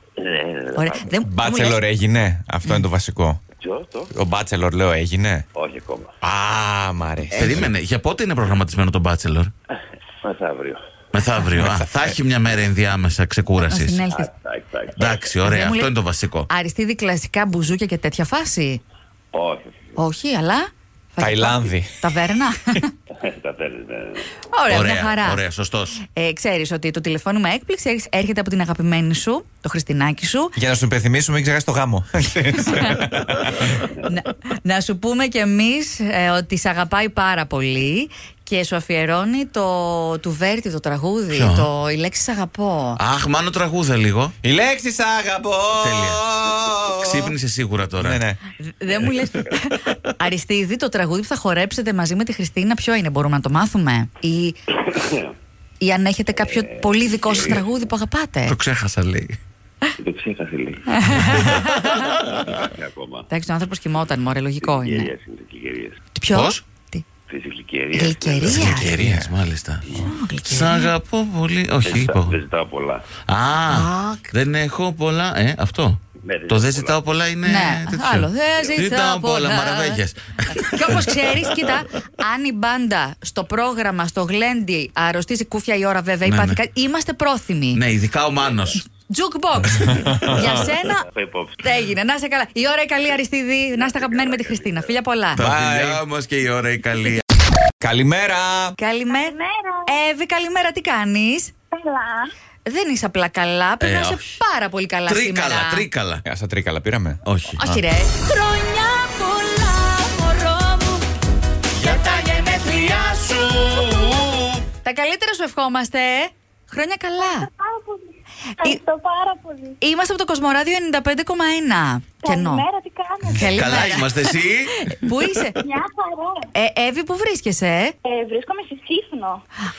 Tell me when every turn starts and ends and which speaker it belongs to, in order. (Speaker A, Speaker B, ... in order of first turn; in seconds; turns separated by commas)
Speaker A: 0.2-1.2, Speaker B: 0.8-1.8, Speaker C: 1.2-3.4, Speaker A: 3.6-4.1, Speaker C: 4.1-5.5, Speaker A: 5.5-6.1, Speaker C: 6.2-7.7, Speaker D: 7.3-9.5, Speaker A: 10.2-10.8, Speaker D: 11.1-14.1, Speaker C: 11.6-11.9, Speaker B: 13.6-14.3, Speaker A: 14.1-15.3, Speaker D: 14.9-16.5, Speaker B: 15.4-15.9, Speaker B: 16.5-18.8, Speaker A: 19.3-20.0, Speaker B: 20.0-22.9, Speaker C: 21.2-22.0, Speaker A: 23.1-24.3, Speaker B: 24.5-25.4, Speaker D: 24.7-26.0, Speaker B: 26.0-30.6, Speaker C: 30.6-33.9, Speaker B: 34.0-43.0, Speaker D: 41.3-41.7, Speaker D: 43.0-44.3, Speaker C: 44.4-47.3, Speaker D: 45.7-46.2, Speaker D: 47.0-48.2, Speaker C: 48.0-48.4, Speaker B: 48.6-54.6, Speaker A: 54.8-55.3, Speaker B: 55.8-58.6, Speaker A: 56.3-57.7, Speaker D: 58.5-59.4, Speaker A: 60.0-61.6, Speaker B: 60.9-62.1, Speaker D: 61.1-62.3, Speaker A: 62.2-63.3, Speaker B: 63.3-65.1, Speaker A: 64.6-66.0, Speaker B: 66.2-67.0, Speaker D: 66.3-66.6, Speaker A: 67.3-68.7, Speaker B: 67.9-68.9, Speaker D: 68.5-69.9, Speaker C: 68.7-69.3, Speaker A: 69.9-70.1, Speaker B: 70.0-70.9, Speaker D: 70.5-72.4, Speaker A: 71.8-73.1, Speaker D: 73.3-81.7, Speaker B: 73.7-74.3, Speaker A: 76.2-77.0, Speaker B: 77.4-80.0, Speaker B: 80.5-87.8, Speaker D: 86.2-86.6, Speaker D: 87.8-88.8, Speaker A: 88.4-88.8, Speaker B: 88.8-91.1, Speaker C: 89.9-90.6, Speaker A: 90.3-91.6, Speaker B: 91.6-95.4, Speaker A: 93.7-95.0, Speaker D: 95.3-97.2, Speaker C: 95.4-96.0, Speaker C: 97.8-98.8, Speaker B: 98.8-101.5, Speaker E: 99.1-99.9, Speaker E: 101.7-102.3, Speaker B: 102.7-105.9, Speaker D: 103.8-104.4, Speaker D: 105.1-106.2, Speaker C: 106.3-107.8, Speaker D: 107.2-107.6, Speaker B: 107.6-111.0, Speaker E: 109.0-110.3, Speaker B: 111.8-113.4, Speaker D: 112.8-114.4, Speaker B: 114.8-117.5, Speaker E: 117.2-118.1, Speaker E: 118.6-119.8, Speaker B: 119.8-122.7, Speaker E: 122.2-123.5, Speaker B: 123.3-124.3, Speaker D: 123.4-125.5, Speaker B: 124.8-125.6, Speaker E: 125.6-126.5, Speaker B: 126.5-127.9, Speaker E: 128.0-129.4